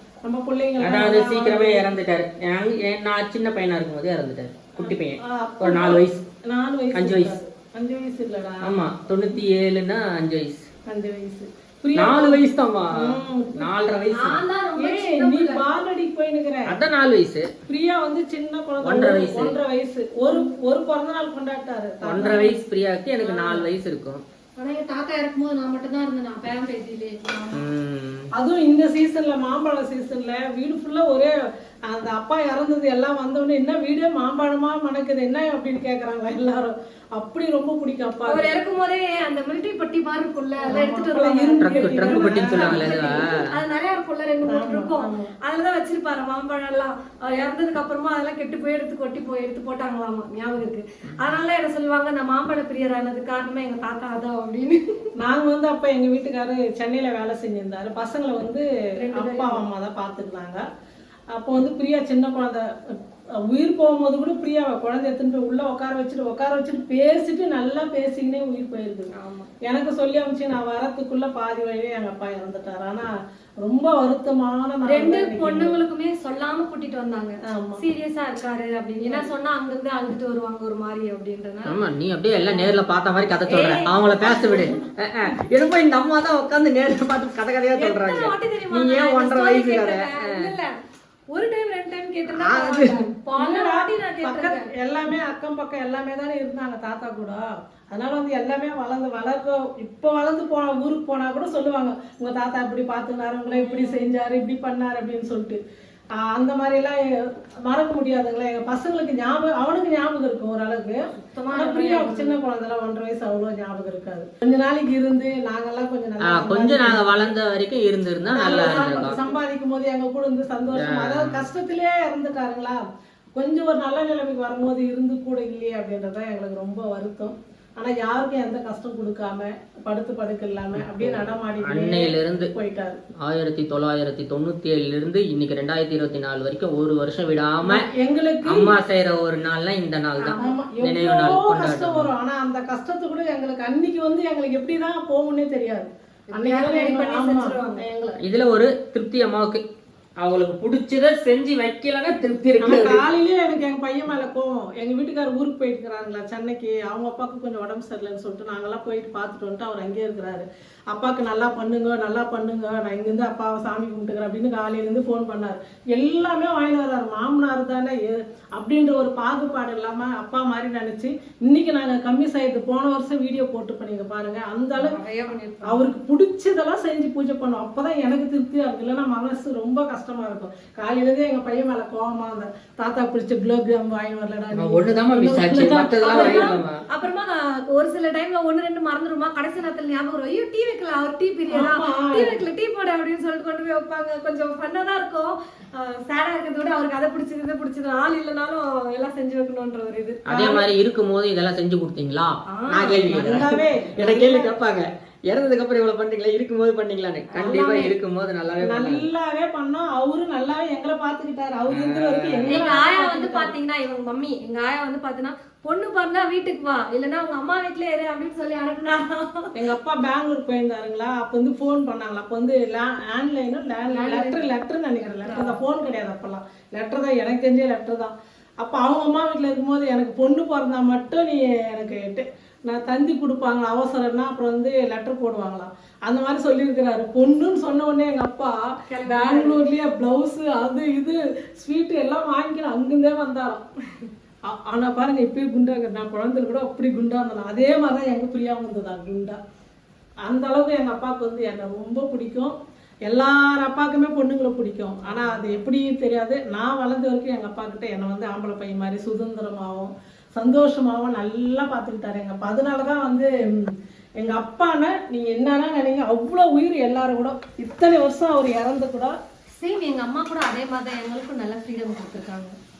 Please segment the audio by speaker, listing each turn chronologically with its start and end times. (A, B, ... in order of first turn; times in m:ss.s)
0:00.2-0:01.8 A
0:00.8-0:06.2 B
0:04.8-0:08.9 A
0:06.9-0:07.4 B
0:08.6-0:10.6 B
0:10.9-0:13.7 A
0:11.9-0:14.4 B
0:14.1-0:15.6 C
0:14.8-0:16.8 A
0:16.6-0:17.5 B
0:17.7-0:22.6 A
0:18.8-0:19.6 B
0:22.0-0:24.2 B
0:23.2-0:23.7 A
0:24.6-0:27.6 C
0:27.5-0:28.3 B
0:28.3-0:31.3 A
0:31.9-0:38.6 A
0:38.3-0:54.8 C
0:40.6-0:43.2 A
0:41.6-0:43.4 B
0:44.5-0:45.3 A
0:55.2-1:00.6 A
0:59.0-0:59.6 C
1:01.3-1:02.6 A
1:03.5-1:09.1 A
1:09.1-1:09.5 C
1:09.6-1:13.1 A
1:13.6-1:15.8 A
1:14.8-1:21.7 C
1:17.5-1:17.8 A
1:21.6-1:30.5 B
1:22.4-1:22.8 A
1:23.4-1:24.8 C
1:24.4-1:24.7 A
1:27.7-1:30.7 C
1:31.3-1:34.7 C
1:32.3-1:45.6 A
1:43.5-1:44.1 C
1:46.2-1:57.3 A
1:51.2-1:52.4 C
1:56.2-1:59.2 B
1:58.3-2:02.8 A
1:58.4-1:59.4 C
2:00.7-2:01.5 B
2:03.3-2:13.0 A
2:10.7-2:12.5 B
2:13.2-2:17.8 B
2:17.6-2:18.7 A
2:18.4-2:22.1 B
2:20.2-2:20.6 C
2:20.4-2:28.2 A
2:26.3-2:27.8 C
2:28.2-2:29.6 B
2:30.2-2:33.0 B
2:32.6-2:55.0 A
2:54.8-2:55.8 C
2:55.6-3:06.5 A
3:04.5-3:06.8 B
3:05.6-3:20.2 C
3:11.5-3:12.3 A
3:20.2-3:29.1 B
3:20.3-3:20.7 A
3:22.5-3:23.0 C
3:23.0-3:24.6 A
3:27.3-3:27.9 C
3:27.4-3:27.9 A
3:28.6-3:33.5 A
3:31.7-3:32.6 B
3:32.4-3:39.5 C
3:39.5-3:58.5 A
3:43.9-3:44.4 C
3:45.1-3:45.6 C
3:58.9-3:59.6 C
3:59.0-4:03.6 A
4:04.5-4:09.4 A
4:10.2-4:12.5 A
4:13.0-4:29.1 A
4:15.0-4:15.6 C
4:29.6-4:32.5 C